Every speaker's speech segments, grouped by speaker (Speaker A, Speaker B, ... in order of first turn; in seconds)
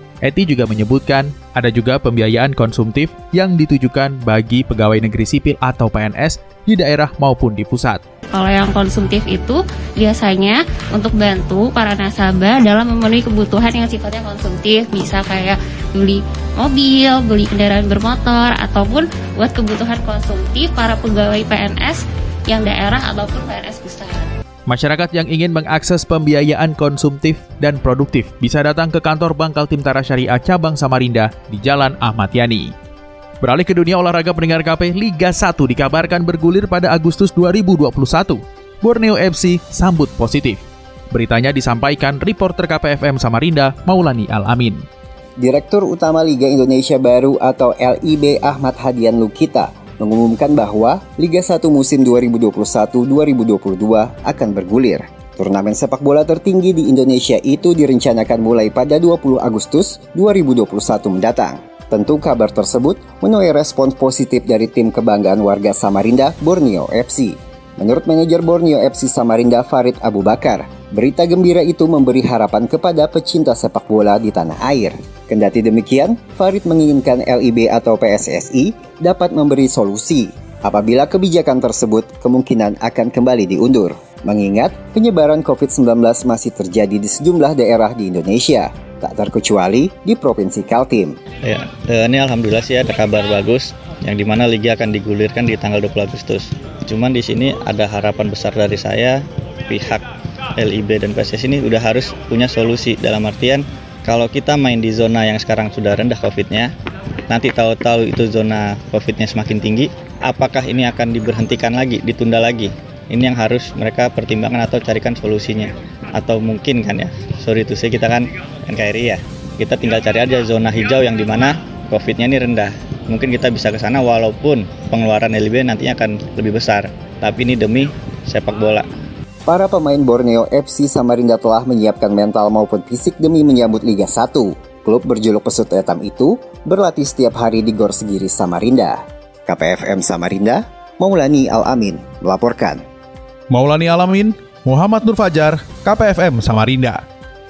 Speaker A: 0.2-8.0, 24.7-32.7, 33.4-44.8, 143.5-147.0
Speaker B: 8.3-24.3
Speaker C: 45.4-91.2, 129.5-142.8
Speaker D: 91.4-100.0, 100.6-106.7, 107.3-128.9